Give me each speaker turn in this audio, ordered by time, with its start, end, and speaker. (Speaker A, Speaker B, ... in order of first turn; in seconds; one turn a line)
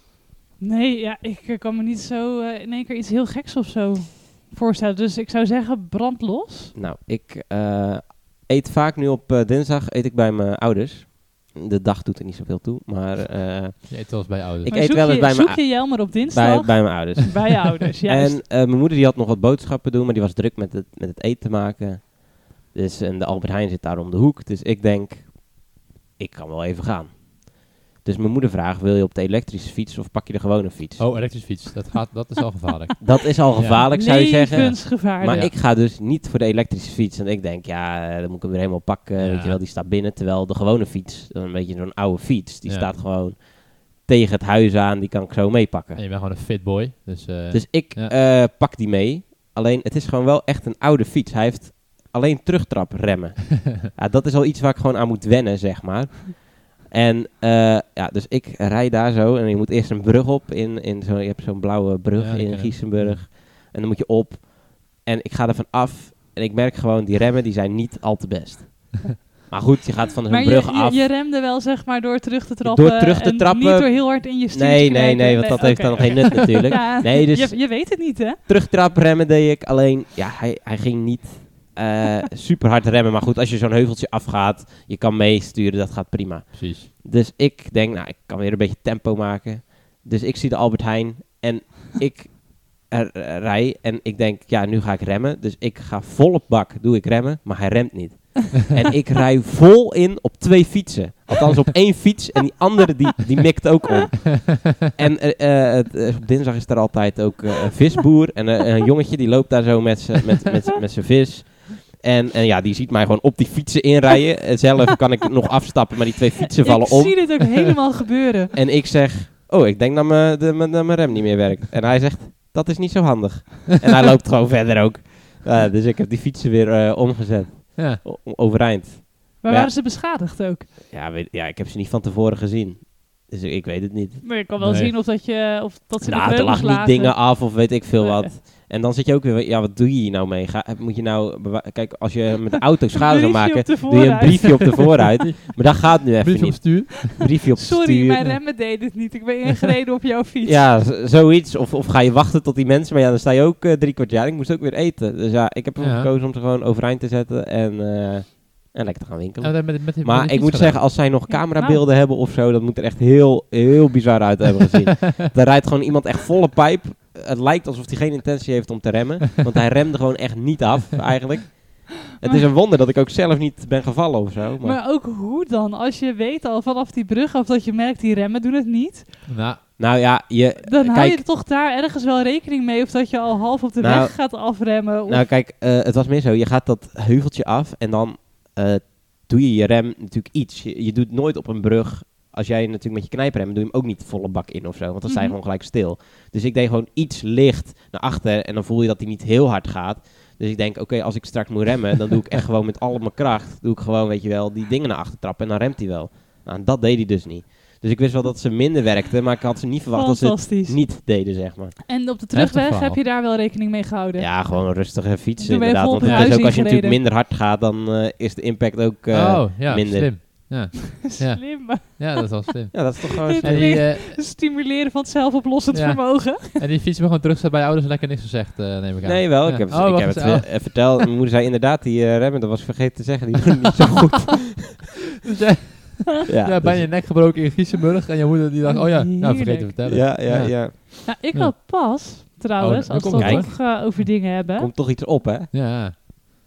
Speaker A: 0.6-6.7
Speaker B: 6.7-31.1
Speaker C: 13.9-14.8
Speaker A: 14.7-18.4
Speaker C: 31.0-33.9
Speaker B: 33.0-46.0
Speaker A: 33.8-35.5
Speaker C: 35.2-35.5
Speaker C: 39.2-39.6
Speaker C: 42.6-42.9
Speaker C: 46.0-48.1
Speaker B: 47.5-71.1
Speaker C: 62.2-63.2
Speaker A: 70.3-78.4
Speaker B: 72.6-117.4
Speaker C: 86.5-86.9
Speaker A: 116.5-118.5
Speaker B: 118.5-129.7
Speaker C: 127.8-128.0
Speaker A: 129.4-130.7
Speaker B: 130.9-134.3
Speaker A: 134.2-138.3
Speaker C: 134.6-134.9
Speaker B: 136.0-148.2
Speaker A: 142.9-145.0
Speaker C: 146.2-147.3
Speaker A: 147.6-150.6
Speaker B: 150.4-174.8
Speaker C: 155.8-156.1
Speaker C: 159.4-161.0
Speaker A: 161.3-161.8
Speaker A: 174.6-179.1
Speaker C: 179.3-179.6
Speaker B: 179.8-181.2
Speaker A: 180.7-185.3
Speaker B: 183.8-211.8
Speaker A: 195.1-195.3
Speaker A: 209.9-211.1
Speaker A: 211.9-214.7
Speaker C: 212.3-213.0
Speaker B: 214.2-220.1
Speaker A: 215.4-217.0
Speaker C: 216.0-216.4
Speaker C: 219.1-222.9
Speaker A: 221.0-226.6
Speaker B: 222.7-223.8
Speaker C: 223.4-224.2
Speaker C: 225.7-231.0
Speaker B: 229.0-234.5
Speaker C: 235.3-244.0
Speaker B: 236.3-236.9
Speaker A: 238.6-239.7
Speaker B: 239.8-240.8
Speaker A: 241.1-244.7
Speaker B: 243.1-243.7
Speaker B: 244.5-245.5
Speaker C: 245.5-245.9